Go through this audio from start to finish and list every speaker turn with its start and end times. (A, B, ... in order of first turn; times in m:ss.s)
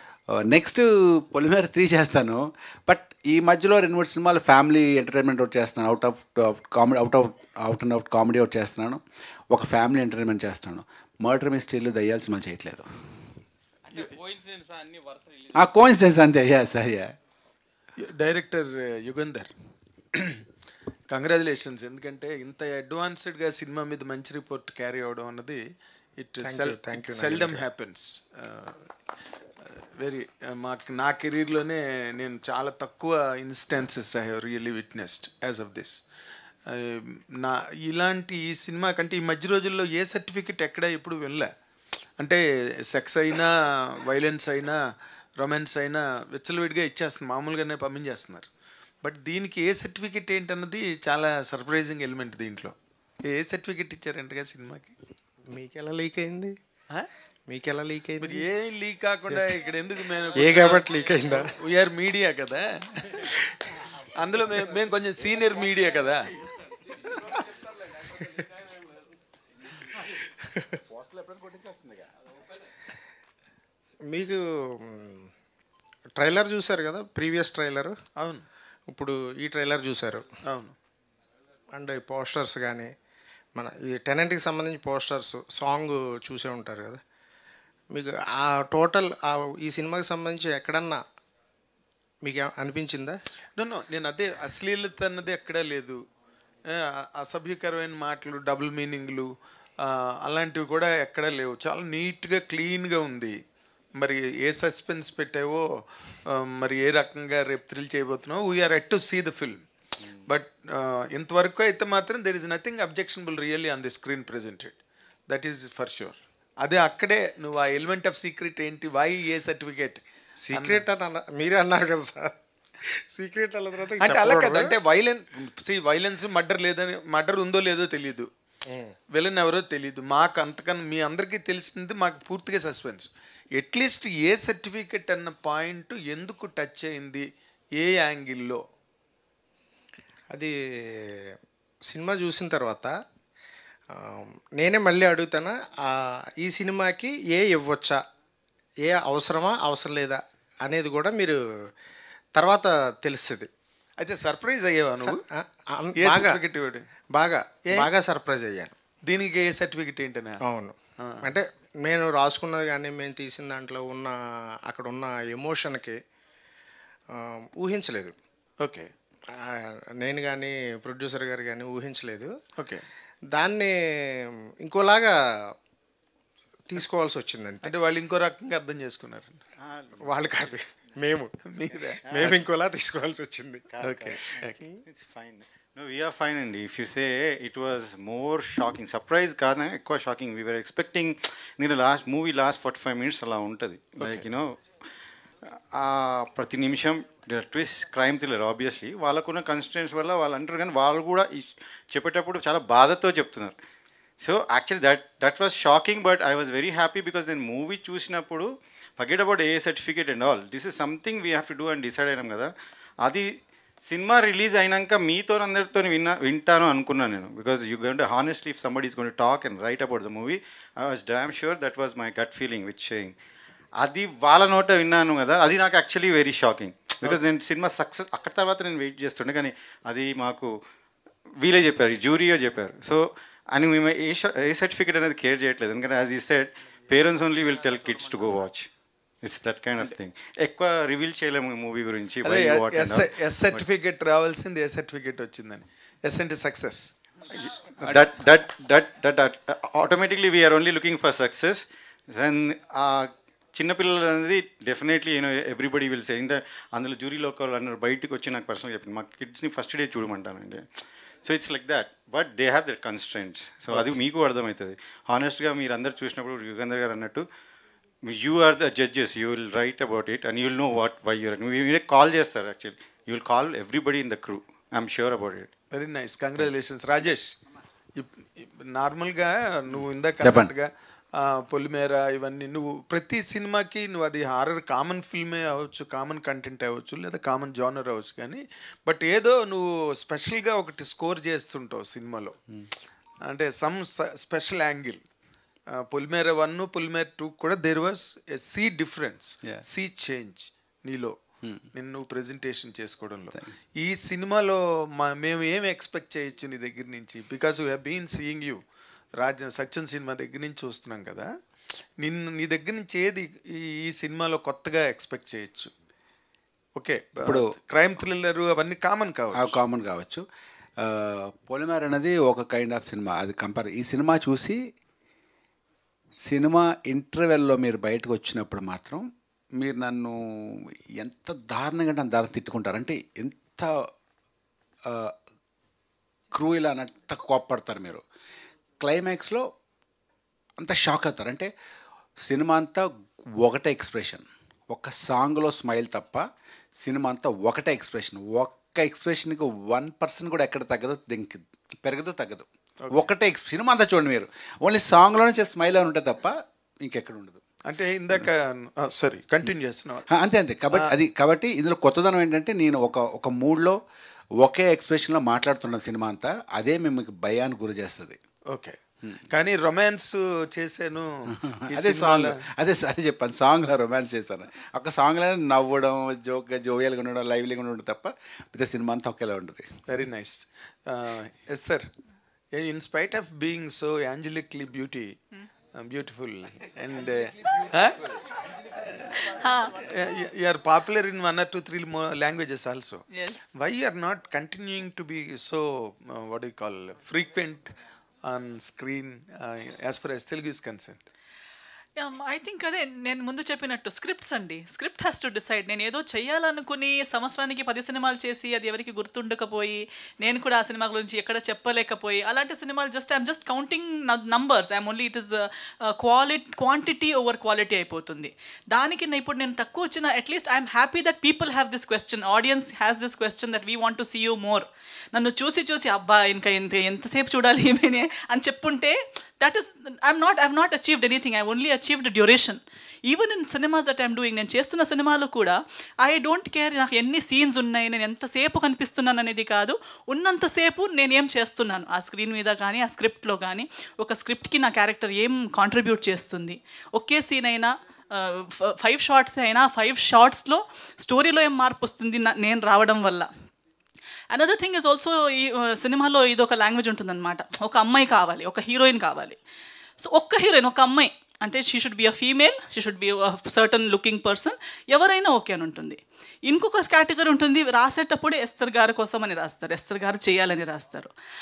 0:00.3-0:12.8 A
0:15.5-0:17.1 A
0:18.0-0:19.5 B
0:21.1-0:25.6 B
0:26.2-0:28.9 B
0:26.4-0:27.6 C
0:29.6-0:36.0 B
0:36.7-0:41.5 B
0:42.2-0:44.8 B
0:45.4-0:48.5 B
0:49.0-0:52.7 B
0:53.2-0:54.9 B
0:55.5-0:56.6 C
0:57.5-0:58.5 C
0:58.2-1:03.3 B
1:00.3-1:01.5 C
1:04.2-1:06.3 B
1:10.9-1:12.1 A
1:14.1-1:15.3 C
1:16.2-1:18.0 C
1:18.2-1:18.4 B
1:18.9-1:20.3 C
1:20.4-1:20.7 B
1:21.7-1:22.9 C
1:23.6-1:27.0 C
1:27.9-1:31.0 C
1:32.2-1:33.2 C
1:33.6-1:36.0 B
1:36.7-1:43.4 B
1:44.0-1:45.7 B
1:46.2-1:49.6 B
1:50.3-1:54.8 B
1:55.3-2:00.8 B
2:00.4-2:02.3 C
2:02.9-2:04.7 C
2:04.0-2:08.3 B
2:09.1-2:18.6 B
2:20.3-2:21.3 C
2:21.9-2:23.0 C
2:23.9-2:28.0 C
2:28.8-2:31.4 C
2:32.4-2:33.5 C
2:34.0-2:35.2 B
2:35.0-2:36.4 C
2:36.0-2:36.8 B
2:37.1-2:38.7 C
2:39.1-2:40.4 B
2:40.4-2:46.0 C
2:41.0-2:41.3 B
2:47.1-2:48.1 C
2:48.6-2:48.9 B
2:49.3-2:52.3 C
2:52.6-2:52.8 B
2:53.3-2:55.1 C
2:56.7-2:57.7 C
2:57.6-2:59.4 B
2:59.6-3:00.5 D
3:00.0-3:01.3 C
3:01.5-3:02.3 B
3:02.1-3:03.6 C
3:02.1-3:02.4 D
3:03.7-3:14.6 D
3:03.8-3:04.6 B
3:14.0-3:14.2 B
3:15.7-3:23.6 D
3:24.2-3:32.5 D
3:33.0-3:33.3 D
3:33.8-3:43.1 D
3:43.8-3:50.5 D
3:51.4-3:58.7 D
3:59.2-4:03.6 D
4:02.2-4:06.9 B
4:07.3-4:20.6 D
4:21.2-4:27.2 D
4:23.7-4:24.0 B
4:28.0-4:35.5 D
4:35.7-4:37.3 B
4:38.0-4:52.4 B
4:40.2-4:40.5 A
4:53.2-4:55.0 B
4:55.7-5:01.2 B
5:01.7-5:08.6 B
5:09.2-5:11.3 B
5:12.0-5:15.7 B
5:16.8-5:19.6 B
5:19.4-5:20.2 A
5:20.8-5:24.6 A
5:26.2-5:33.8 A
5:34.8-5:35.1 A
5:36.3-5:38.0 A
5:38.8-5:39.5 A
5:40.6-5:41.5 A
5:42.2-5:46.2 A
5:46.8-5:57.4 A
5:52.8-5:53.1 B
5:57.6-6:00.0 B
6:00.1-6:03.8 A
6:04.4-6:08.2 A
6:08.5-6:08.8 B
6:09.3-6:12.4 B
6:11.5-6:19.8 A
6:19.9-6:21.9 B
6:22.5-6:25.2 B
6:25.7-6:28.2 B
6:28.7-6:29.2 B
6:29.2-6:29.8 E
6:29.7-6:33.0 B
6:33.1-6:33.4 E
6:33.5-6:37.7 B
6:38.2-6:41.0 B
6:42.0-7:33.3 E
7:34.3-7:39.4 E
7:40.0-7:51.1 E